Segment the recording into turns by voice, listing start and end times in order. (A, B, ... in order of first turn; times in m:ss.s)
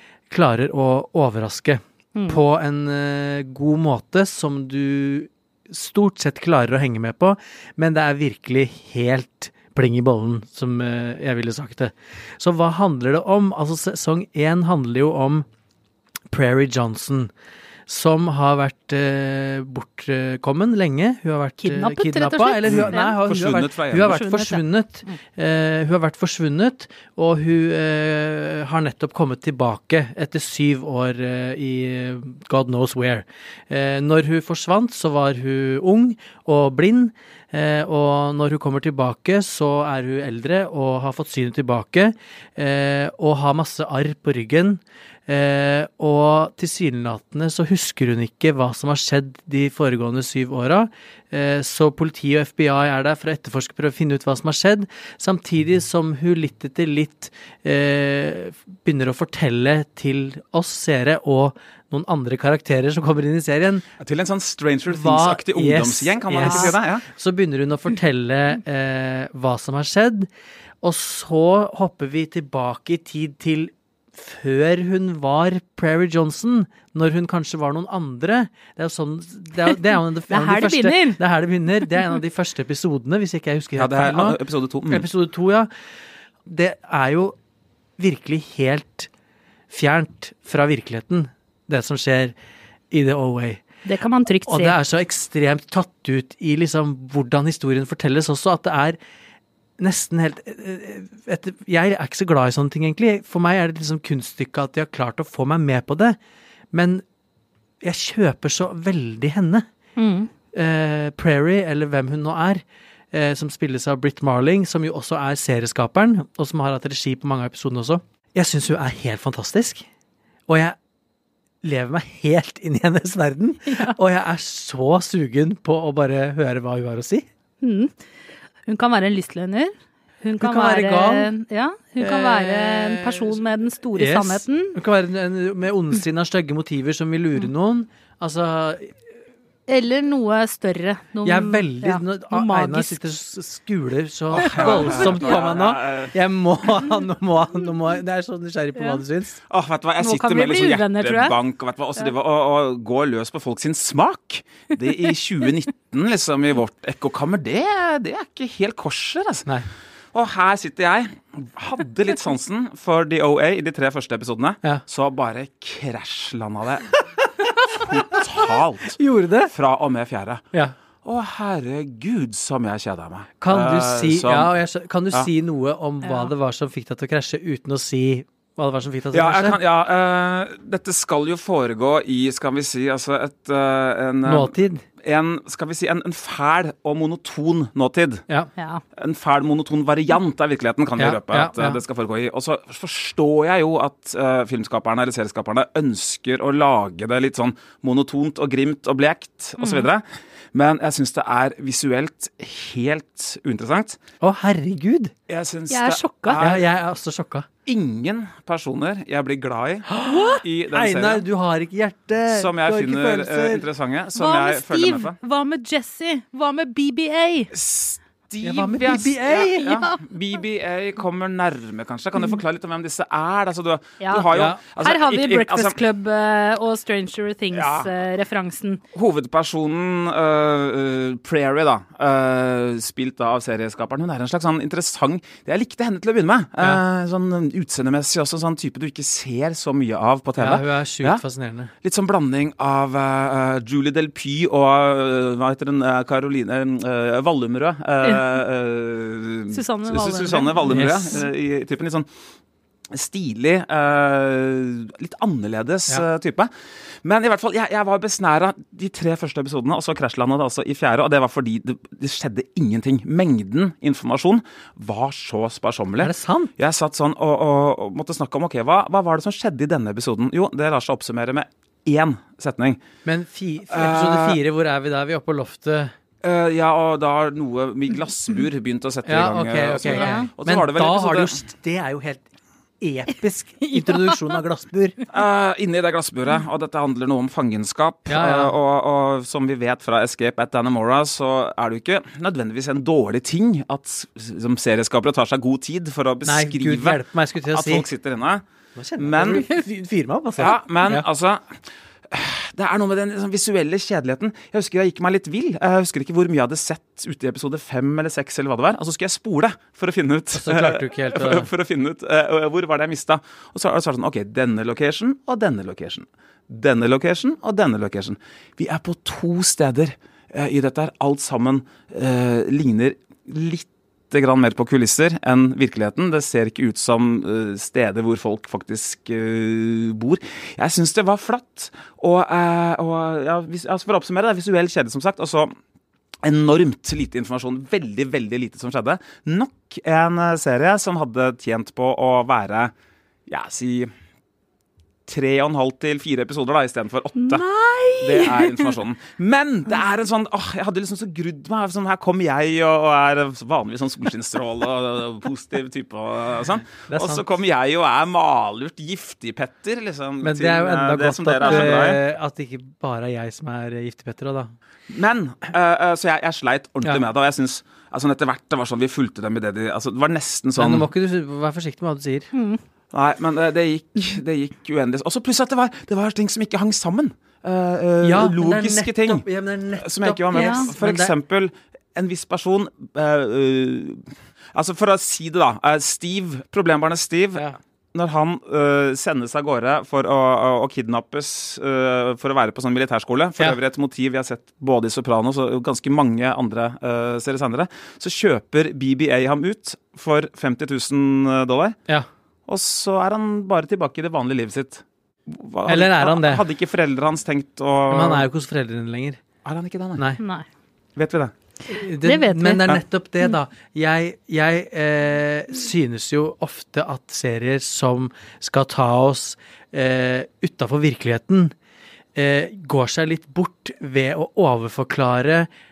0:00.3-0:15.4 A
0:02.1-0:02.4 B
0:16.3-0:17.3 A
0:17.9-1:03.8 A
0:21.6-0:23.2 B
0:22.7-0:24.2 C
0:24.0-0:25.2 B
1:04.0-1:07.0 C
1:04.9-1:10.3 A
1:10.8-1:25.7 A
1:20.3-1:21.2 B
1:23.8-1:25.1 C
1:26.4-1:27.4 A
1:28.0-1:29.1 A
1:29.7-1:32.3 A
1:32.9-1:33.6 A
1:33.8-1:34.8 B
1:34.4-1:39.0 A
1:39.8-1:46.2 A
1:46.7-1:47.0 A
1:47.8-1:49.6 A
1:50.0-1:50.3 B
1:50.5-1:59.9 A
2:00.5-2:00.8 A
2:01.6-2:07.2 A
2:03.7-2:03.9 B
2:07.6-2:07.9 B
2:08.6-2:14.8 B
2:10.4-2:11.3 A
2:12.0-2:18.9 A
2:19.7-2:23.0 B
2:21.2-2:29.4 A
2:24.3-2:26.1 C
2:24.4-2:25.2 B
2:28.8-2:29.0 B
2:29.5-2:39.5 C
2:30.0-2:31.4 B
2:40.1-2:47.0 C
2:47.7-2:48.2 A
2:47.8-2:50.4 C
2:48.9-2:49.5 A
2:51.0-2:54.5 C
2:53.4-2:59.6 A
2:59.1-3:08.2 C
3:04.2-3:04.8 A
3:08.6-3:08.8 B
3:09.0-3:24.0 C
3:11.0-3:11.8 A
3:19.6-3:19.9 B
3:24.2-3:25.1 A
3:25.3-3:26.7 C
3:25.7-3:26.4 B
3:26.4-3:27.5 A
3:27.6-3:31.2 C
3:29.9-3:33.7 A
3:30.1-3:30.4 B
3:32.3-3:35.1 C
3:34.2-3:37.5 B
3:37.5-3:45.8 C
3:38.4-3:39.8 A
3:44.0-3:48.8 B
3:44.3-3:44.6 A
3:47.5-3:47.9 C
3:48.9-4:01.2 C
4:00.4-4:01.7 A
4:01.8-4:12.1 C
4:09.5-4:11.2 B
4:10.7-4:11.2 A
4:12.9-4:16.5 C
4:17.0-4:32.8 C
4:26.0-4:26.5 A
4:33.0-4:35.9 A
4:33.7-4:34.4 C
4:36.2-4:41.4 C
4:39.0-4:42.3 A
4:39.9-4:40.3 B
4:42.8-4:45.0 A
4:43.7-4:44.3 B
4:45.1-4:58.4 C
4:48.1-4:48.5 A
4:56.2-4:57.8 A
4:58.8-5:01.0 A
4:59.0-4:59.4 C
5:00.4-5:35.5 C
5:10.3-5:11.5 A
5:36.2-5:42.7 C
5:43.3-5:43.9 C
5:45.1-5:47.4 C
5:47.2-5:48.7 B
5:48.0-6:02.0 C
5:56.8-5:57.2 A
6:00.2-6:04.5 A
6:04.9-6:10.9 C
6:10.6-6:12.3 A
6:12.3-6:12.6 B
6:12.9-6:19.3 C
6:18.0-6:21.1 A
6:19.8-6:41.8 C
6:20.3-6:20.7 B
6:42.5-6:48.2 C
6:45.7-6:46.4 A
6:47.9-6:49.2 A
6:49.4-6:50.1 C
6:50.2-6:50.4 B
6:51.0-6:51.3 C
6:51.7-7:01.5 A
6:52.0-6:52.7 B
7:02.1-7:05.5 A